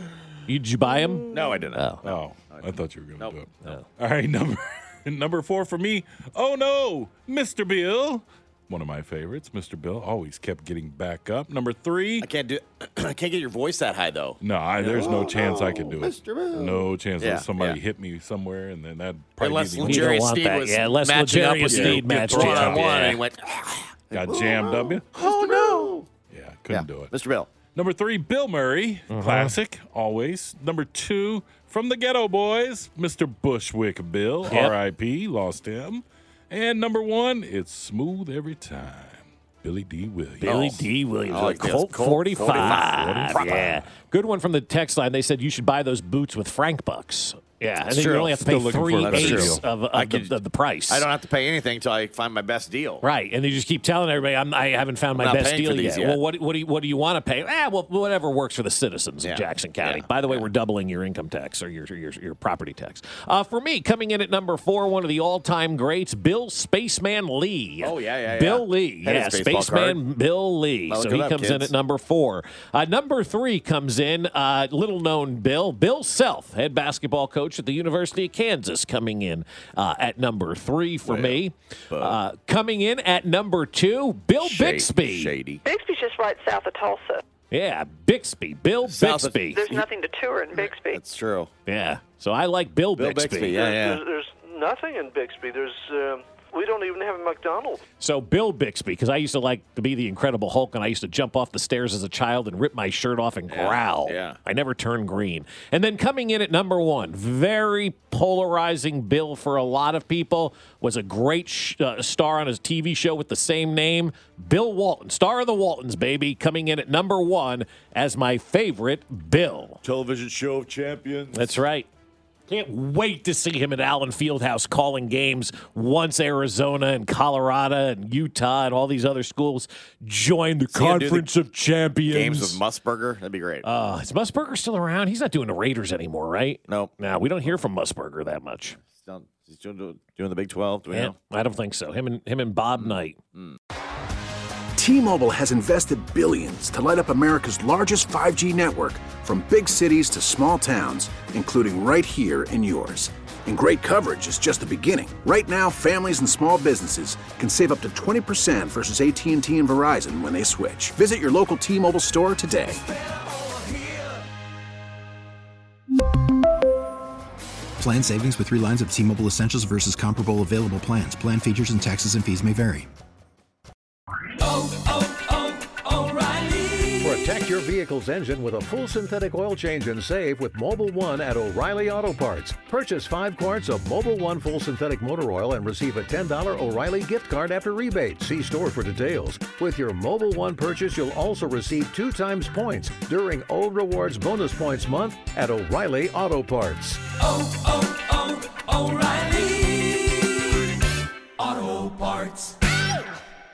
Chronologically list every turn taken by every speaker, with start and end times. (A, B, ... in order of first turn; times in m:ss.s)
0:00.5-0:02.0 A
0:01.3-0:03.4 B
0:02.0-0:12.3 C
0:12.2-0:17.8 B
0:14.4-0:20.2 C
0:19.4-0:26.1 B
0:19.8-0:23.2 A
0:21.7-0:23.2 C
0:24.1-0:25.6 C
0:26.3-0:27.1 C
0:26.7-0:27.5 B
0:27.7-0:40.7 C
0:29.1-0:29.6 A
0:34.5-0:34.7 A
0:40.4-0:43.6 B
0:40.4-0:51.1 A
0:42.4-0:43.9 C
0:47.9-0:48.4 B
0:48.3-0:49.6 C
0:49.0-0:50.4 B
0:50.9-0:53.0 B
0:53.0-1:25.3 A
0:55.2-0:56.2 B
0:59.2-1:00.5 B
1:07.8-1:10.0 B
1:10.9-1:11.7 B
1:21.1-1:21.4 B
1:21.9-1:22.2 B
1:24.4-1:25.6 B
1:25.6-1:27.2 D
1:27.5-1:29.6 A
1:28.8-1:29.9 B
1:29.5-1:31.0 D
1:30.5-1:31.5 B
1:31.7-1:33.6 A
1:33.0-1:34.0 B
1:33.5-1:37.8 D
1:38.0-1:59.8 A
1:43.5-1:44.4 B
1:59.8-2:01.6 B
2:01.3-2:01.9 A
2:02.5-2:12.6 A
2:10.7-2:11.3 B
2:12.1-2:13.6 B
2:13.6-2:18.8 A
2:16.7-2:17.0 B
2:18.8-2:21.2 B
2:20.9-2:23.2 A
2:22.8-2:23.6 B
2:24.8-2:42.8 E
2:47.8-2:52.9 F
2:57.0-3:17.0 G